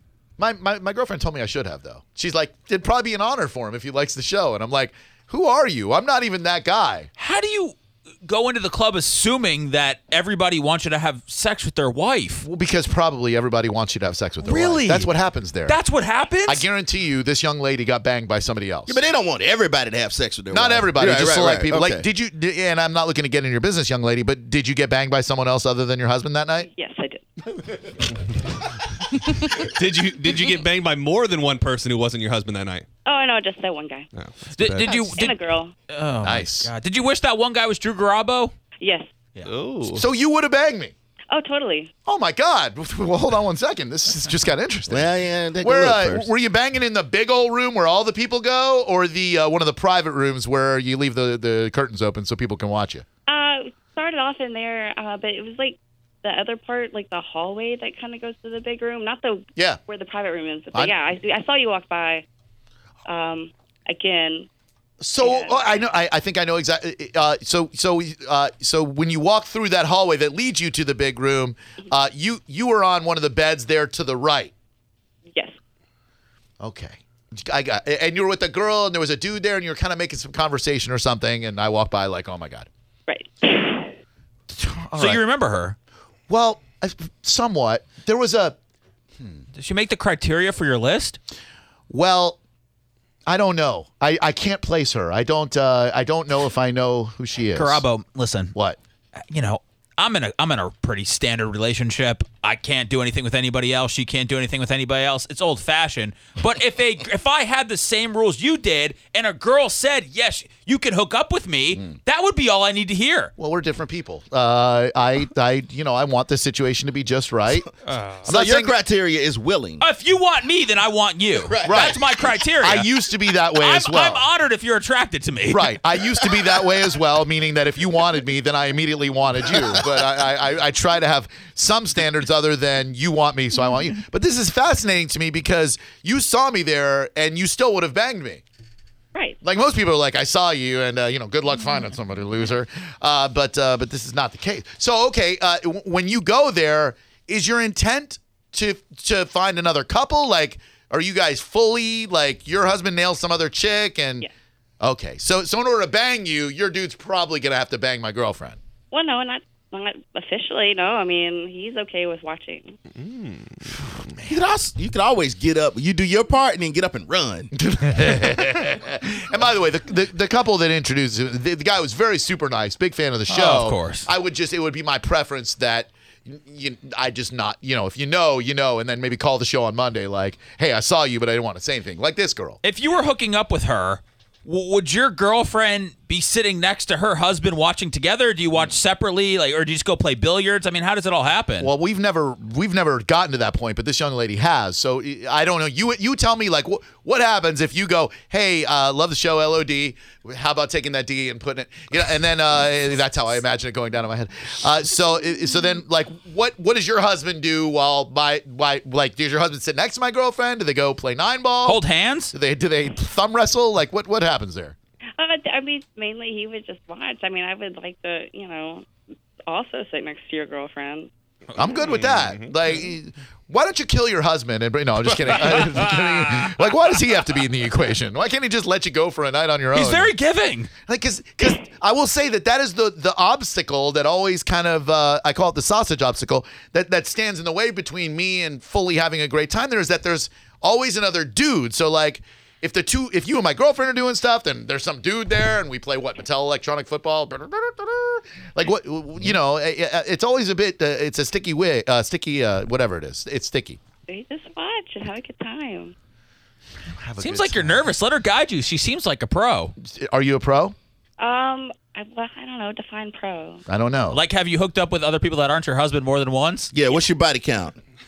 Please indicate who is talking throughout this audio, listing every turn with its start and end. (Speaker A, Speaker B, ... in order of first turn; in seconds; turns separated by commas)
Speaker A: 0.4-7.1, Speaker B: 7.2-12.4, Speaker A: 12.4-15.8, Speaker B: 14.4-15.1, Speaker B: 15.7-16.6, Speaker A: 16.5-19.0, Speaker C: 18.9-22.1, Speaker A: 20.5-26.7, Speaker D: 26.6-27.3, Speaker E: 29.7-32.9, Speaker D: 33.0-34.1, Speaker E: 34.1-34.7, Speaker B: 34.5-35.4, Speaker D: 35.0-35.7, Speaker B: 35.9-38.5, Speaker A: 36.2-36.7, Speaker D: 38.8-39.1, Speaker E: 39.5-40.0, Speaker A: 39.9-40.9, Speaker D: 41.3-41.9, Speaker A: 42.1-53.0, Speaker C: 44.9-46.3, Speaker D: 53.3-62.2, Speaker D: 63.1-64.5, Speaker A: 65.0-74.5, Speaker D: 65.2-65.8, Speaker A: 76.6-82.7, Speaker D: 83.1-83.9, Speaker A: 84.5-85.2, Speaker B: 85.0-85.8, Speaker A: 86.3-88.6, Speaker B: 89.5-91.2, Speaker A: 91.9-92.4, Speaker A: 93.3-97.8, Speaker B: 97.5-98.5, Speaker B: 99.3-113.3, Speaker A: 113.4-117.7, Speaker B: 117.8-118.3, Speaker C: 118.2-119.8, Speaker A: 118.3-118.8, Speaker B: 119.8-122.9, Speaker C: 121.5-122.0, Speaker A: 121.7-122.0, Speaker A: 122.6-124.2, Speaker B: 123.5-125.8, Speaker A: 125.5-138.4, Speaker A: 139.4-154.3, Speaker A: 154.8-158.6, Speaker D: 158.9-162.8, Speaker E: 163.0-163.4, Speaker C: 164.2-167.5, Speaker A: 167.5-182.6, Speaker B: 173.3-174.1, Speaker B: 182.6-191.7, Speaker A: 191.6-211.8, Speaker B: 211.6-212.3, Speaker A: 212.3-214.8, Speaker D: 215.2-218.9, Speaker D: 219.5-221.1, Speaker A: 221.6-230.1, Speaker B: 225.3-226.6, Speaker B: 229.7-230.7, Speaker A: 230.8-253.8, Speaker D: 254.1-255.9, Speaker A: 257.0-257.9, Speaker B: 257.2-259.8, Speaker A: 259.8-260.8, Speaker D: 261.2-263.6, Speaker A: 263.7-264.2, Speaker B: 264.1-266.7, Speaker C: 266.7-267.8